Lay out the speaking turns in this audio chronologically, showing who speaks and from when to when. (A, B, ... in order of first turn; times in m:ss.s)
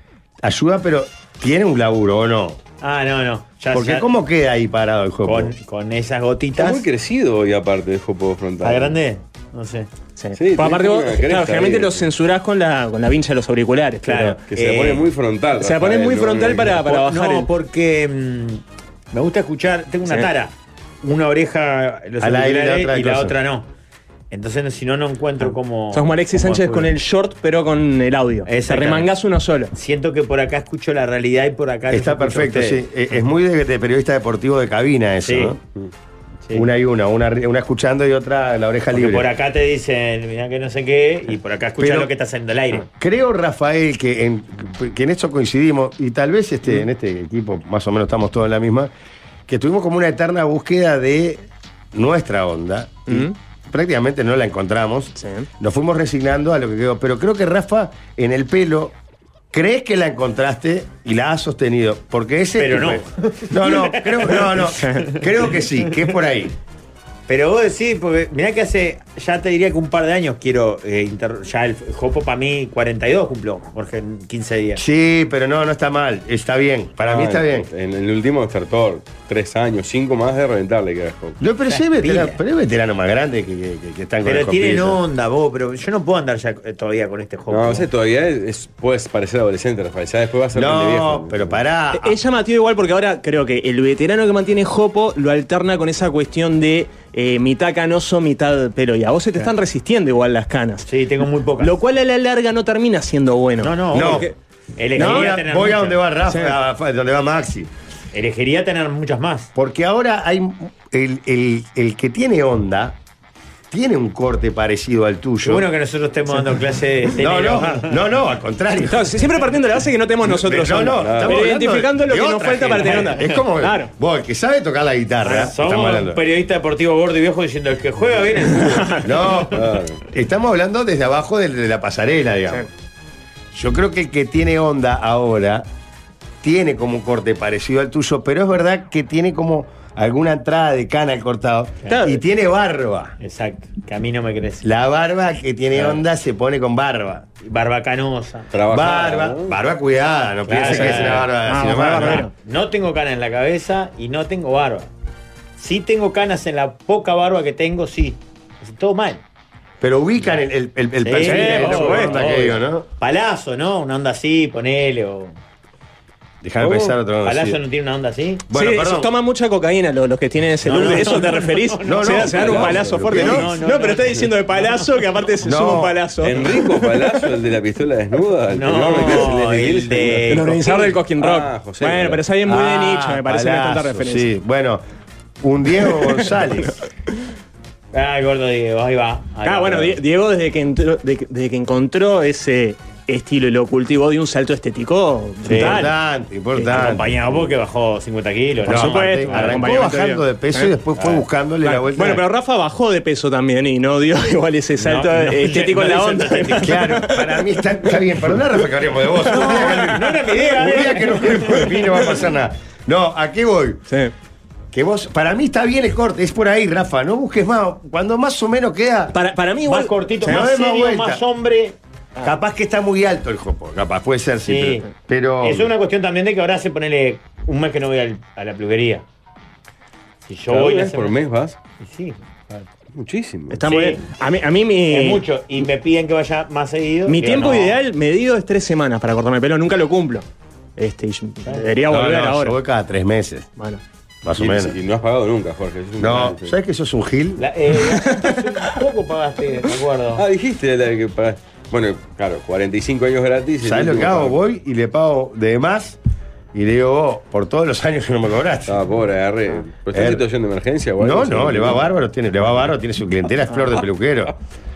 0:00.4-0:02.6 A
0:02.8-0:04.0 B
0:03.7-0:05.5 A
0:05.2-0:06.8 B
0:06.6-0:09.0 C
0:08.6-0:09.9 B
0:10.2-0:14.3 D
0:10.4-0:12.0 C
0:14.0-0:15.0 B
0:14.5-0:16.8 C
0:15.6-0:17.5 D
0:16.8-0:18.6 B
0:19.1-0:23.6 B
0:22.2-0:23.3 A
0:24.3-0:26.9 B
0:25.9-0:29.7 D
0:28.4-0:29.1 B
0:29.7-0:32.8 B
0:31.9-0:35.6 A
0:35.2-0:35.5 B
0:36.5-0:39.3 A
0:38.9-0:42.8 B
0:41.8-0:42.1 A
0:42.8-0:48.9 A
0:49.5-0:58.9 A
0:53.1-0:53.3 D
0:55.2-0:55.5 D
0:59.5-1:06.5 A
1:02.6-1:05.9 B
1:07.3-1:14.8 B
1:14.8-1:17.7 A
1:17.0-1:21.4 C
1:21.4-1:25.0 A
1:21.7-1:22.4 B
1:24.2-1:27.9 B
1:27.5-1:31.6 C
1:30.5-1:32.2 A
1:31.9-1:40.9 D
1:40.8-1:41.7 B
1:41.6-1:44.3 D
1:43.6-1:46.0 B
1:43.9-1:44.3 A
1:44.9-1:47.7 A
1:45.0-1:45.3 D
1:46.3-1:46.6 D
1:48.1-1:49.5 B
1:49.5-1:53.0 A
1:53.7-1:55.7 A
1:55.4-1:57.9 B
1:57.2-1:59.1 A
1:58.9-2:03.9 D
2:00.2-2:06.2 A
2:01.0-2:01.4 C
2:03.0-2:03.2 B
2:05.2-2:05.5 D
2:05.3-2:09.4 B
2:08.6-2:09.0 D
2:09.0-2:12.7 A
2:09.5-2:10.0 C
2:13.5-2:15.7 A
2:16.4-2:23.1 A
2:21.9-2:22.2 D
2:23.2-2:24.6 B
2:24.6-2:27.2 A
2:25.7-2:26.0 B
2:27.4-2:28.5 B
2:28.5-2:29.5 C
2:28.7-2:32.2 A
2:30.5-2:31.3 B
2:30.6-2:32.3 D
2:32.0-2:34.9 B
2:35.6-2:39.2 B
2:39.8-2:42.8 A
2:41.0-2:45.3 B
2:41.2-2:42.2 D
2:46.4-2:47.6 A
2:47.2-2:48.4 B
2:48.5-2:49.1 A
2:48.5-2:57.2 D
2:50.6-2:54.9 B
2:51.8-2:53.4 A
2:52.4-2:53.3 C
2:55.4-2:56.0 A
2:56.2-3:02.2 C
2:58.5-3:00.7 B
3:00.3-3:04.3 D
3:02.4-3:04.8 A
3:05.4-3:06.8 A
3:06.0-3:06.3 D
3:07.9-3:10.0 B
3:09.4-3:15.9 D
3:15.4-3:15.8 B
3:15.5-3:17.2 A
3:16.6-3:16.8 D
3:16.6-3:19.6 B
3:18.6-3:22.3 A
3:18.6-3:27.3 D
3:24.8-3:26.8 B
3:26.6-3:33.8 A
3:29.3-3:30.0 D
3:29.3-3:31.9 B
3:34.7-3:39.2 A
3:39.1-3:40.4 D
3:39.6-3:41.8 B
3:40.2-3:41.2 A
3:42.2-3:45.7 A
3:44.4-3:44.8 B
3:45.4-3:49.0 B
3:50.3-3:51.2 B
3:50.5-3:51.6 C
3:51.8-3:52.7 B
3:53.0-3:53.6 C
3:53.5-3:55.2 D
3:53.7-3:54.0 B
3:54.9-3:57.8 B
3:57.1-4:00.2 D
4:00.8-4:02.5 D
4:01.9-4:03.5 A
4:04.2-4:04.8 A
4:04.4-4:06.5 C
4:06.0-4:07.5 A
4:07.4-4:10.2 B
4:07.9-4:08.3 D
4:10.1-4:14.4 C
4:13.6-4:16.0 A
4:16.5-4:18.8 A
4:18.7-4:21.9 C
4:19.9-4:20.2 A
4:21.0-4:24.3 A